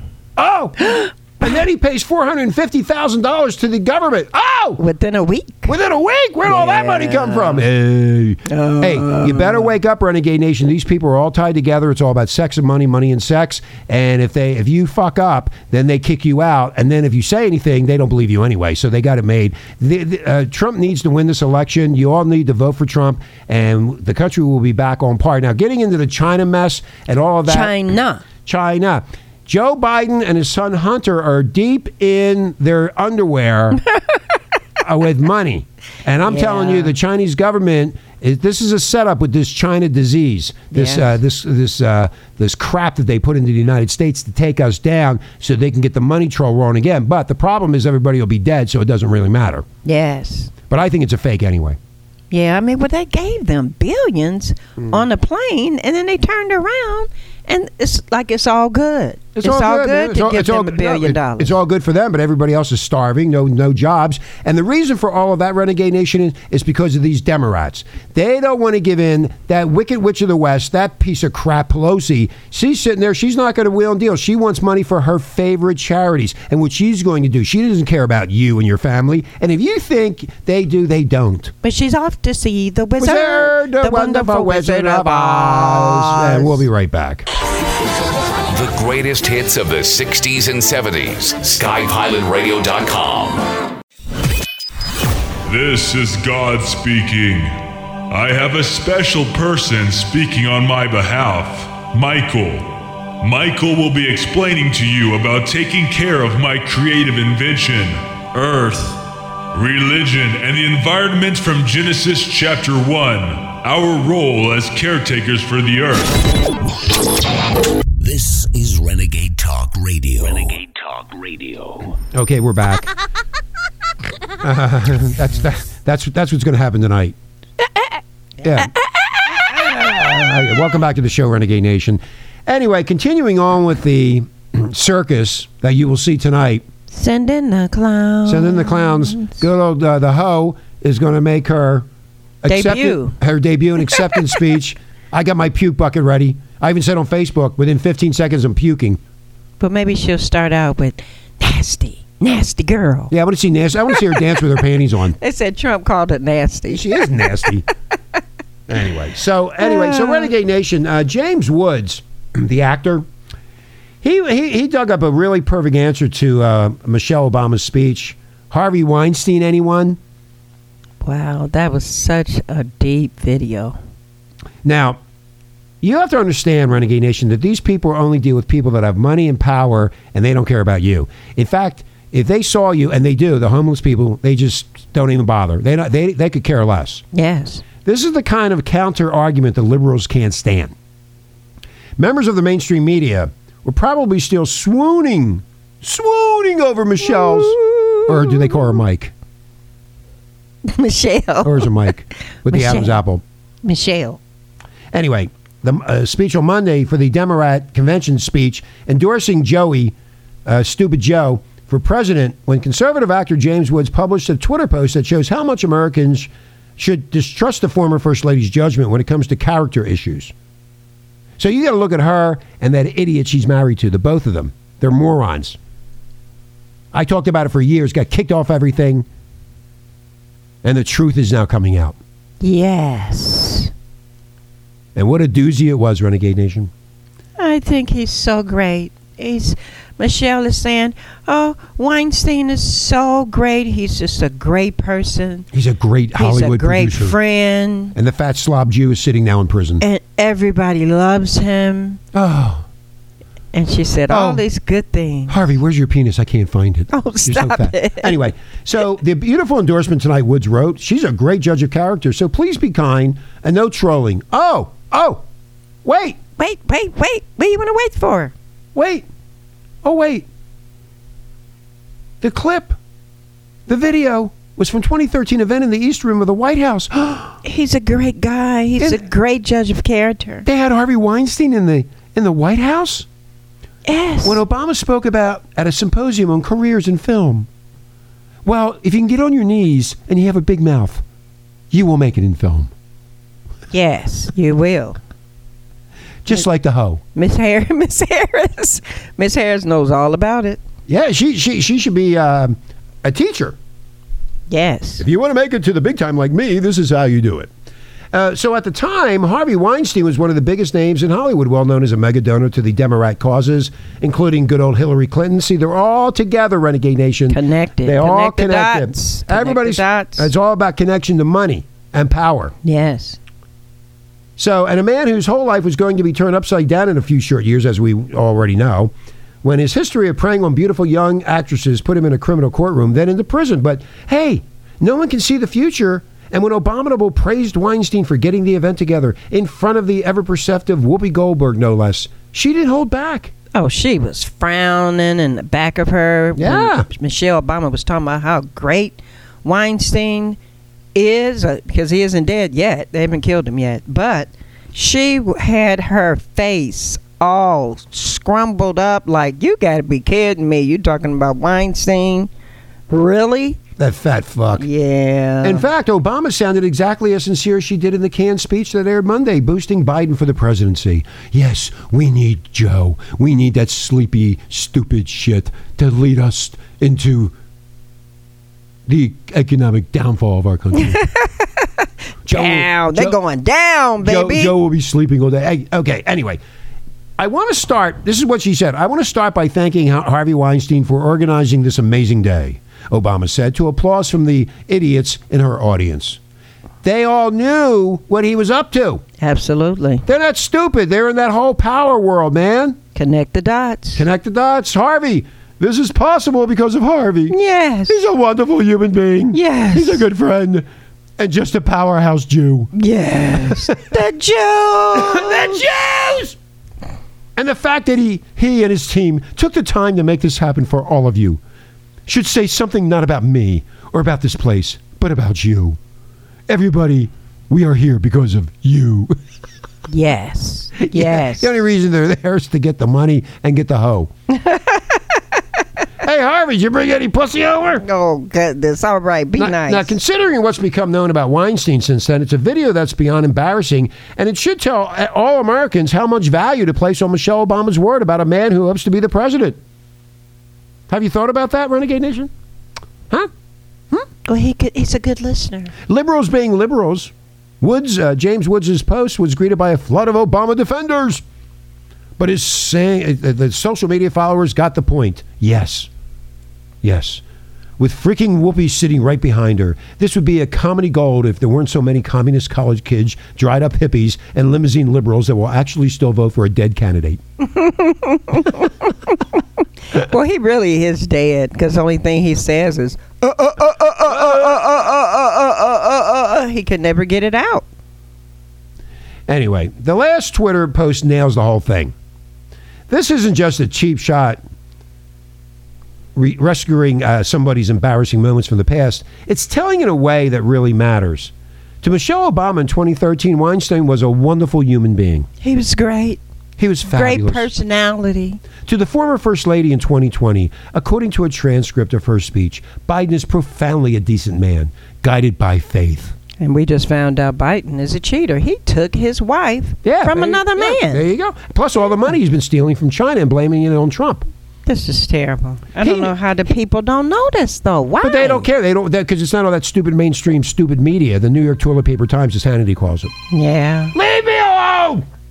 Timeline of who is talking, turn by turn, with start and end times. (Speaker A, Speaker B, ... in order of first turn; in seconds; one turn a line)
Speaker A: 0.4-4.8
Speaker B: 4.8-5.8
Speaker A: 5.7-27.8
Speaker B: 6.4-7.6
Speaker B: 8.5-9.7
Speaker B: 27.5-28.2
Speaker A: 28.4-33.8
Speaker A: 34.8-49.6
Speaker B: 36.2-36.9
Speaker B: 40.7-41.2
Speaker B: 49.8-50.5
Speaker A: 50.7-51.8
Speaker B: 52.3-61.5
Speaker A: 59.3-81.5
Speaker B: 81.6-86.6
Speaker A: 83.0-87.2
Speaker C: 88.5-93.4
Speaker D: 95.5-109.0
Speaker D: 109.5-116.3
Speaker E: 118.0-122.0
Speaker A: 122.1-122.9
Speaker A: 124.4-127.1
Speaker A: 128.4-128.7
Speaker B: 128.5-130.3
Speaker A: 129.5-136.6
Speaker B: 136.9-139.4
Speaker A: 138.2-141.9
Speaker A: 142.4-149.0
Speaker B: 142.5-143.1
Speaker B: 149.6-153.1
Speaker A: 153.1-155.2
Speaker B: 154.0-154.2
Speaker B: 155.2-157.5
Speaker A: 156.7-157.6
Speaker A: 158.7-163.1
Speaker B: 159.6-160.3
Speaker A: 164.0-170.0
Speaker B: 171.0-173.8
Speaker A: 174.6-175.0
Speaker A: 175.8-187.0
Speaker B: 187.1-187.6
Speaker A: 187.8-190.7
Speaker A: 192.0-199.1
Speaker B: 197.0-198.8
Speaker B: 200.7-201.9
Speaker A: 201.4-203.2
Speaker B: 202.4-203.0
Speaker B: 203.6-204.2
Speaker A: 204.9-209.9
Speaker A: 210.4-220.3
Speaker A: 221.4-225.6
Speaker A: 226.9-229.1
Speaker A: 230.6-231.9
Speaker B: 232.4-233.7
Speaker A: 234.9-236.7
Speaker B: 237.4-245.5
Speaker A: 245.5-247.2
Speaker B: 246.2-247.9
Speaker A: 247.9-249.8
Speaker B: 249.8-252.0
Speaker A: 252.1-252.7
Speaker B: 253.5-255.4
Speaker A: 254.1-254.4
Speaker A: 255.3-265.2
Speaker B: 256.9-258.1
Speaker A: 265.8-266.2
Speaker B: 266.4-268.3
Speaker A: 268.7-269.1
Speaker A: 269.8-270.2
Speaker A: 272.2-272.8
Speaker A: 273.7-277.4
Speaker B: 277.4-280.4
Speaker A: 280.4-283.1
Speaker B: 283.9-284.4
Speaker A: 284.2-287.5
Speaker A: 288.4-291.0
Speaker A: 291.7-292.7
Speaker B: 293.7-295.0
Speaker A: 296.2-297.0
Speaker B: 297.1-300.6
Speaker A: 300.9-303.6
Speaker B: 304.5-305.0
Speaker A: 305.0-307.5
Speaker A: 308.1-322.5
Speaker B: 317.3-320.3
Speaker B: 322.6-323.2
Speaker A: 324.4-343.3
Speaker B: 343.5-350.4
Speaker A: 346.4-346.9
Speaker B: 350.9-362.3
Speaker B: 362.9-363.6
Speaker A: 363.8-364.7
Speaker B: 364.6-365.6
Speaker A: 365.4-377.3
Speaker A: 378.9-381.0
Speaker B: 380.8-384.5
Speaker A: 382.2-383.2
Speaker A: 384.0-386.4
Speaker A: 387.2-396.2
Speaker A: 396.8-399.0
Speaker B: 399.2-400.0
Speaker A: 400.1-402.8
Speaker B: 402.9-404.0
Speaker A: 403.9-407.4
Speaker B: 407.3-407.9
Speaker A: 407.9-410.7
Speaker B: 409.3-410.0
Speaker A: 411.2-412.7
Speaker B: 412.7-415.6
Speaker A: 413.4-413.8
Speaker A: 414.9-416.4
Speaker A: 417.4-421.4
Speaker A: 422.1-425.8
Speaker A: 426.5-429.1
Speaker B: 429.9-431.5
Speaker A: 430.8-434.1
Speaker B: 434.3-435.2
Speaker A: 436.0-437.8
Speaker B: 437.8-439.9
Speaker A: 439.4-449.6
Speaker A: 450.9-452.3
Speaker B: 454.2-455.7
Speaker A: 455.9-461.2
Speaker A: 462.2-465.9
Speaker A: 466.8-467.2
Speaker A: 467.8-477.2
Speaker B: 477.4-479.4
Speaker B: 479.9-487.6
Speaker A: 484.1-484.6
Speaker A: 489.3-491.9
Speaker A: 492.9-494.4
Speaker A: 496.1-505.3
Speaker B: 505.4-506.2
Speaker A: 506.6-507.5
Speaker B: 506.9-508.4
Speaker A: 508.6-516.1
Speaker B: 516.4-521.0
Speaker A: 519.8-524.2
Speaker B: 524.6-528.5
Speaker A: 525.8-526.1
Speaker A: 528.0-533.1
Speaker B: 533.3-533.9
Speaker A: 533.9-535.0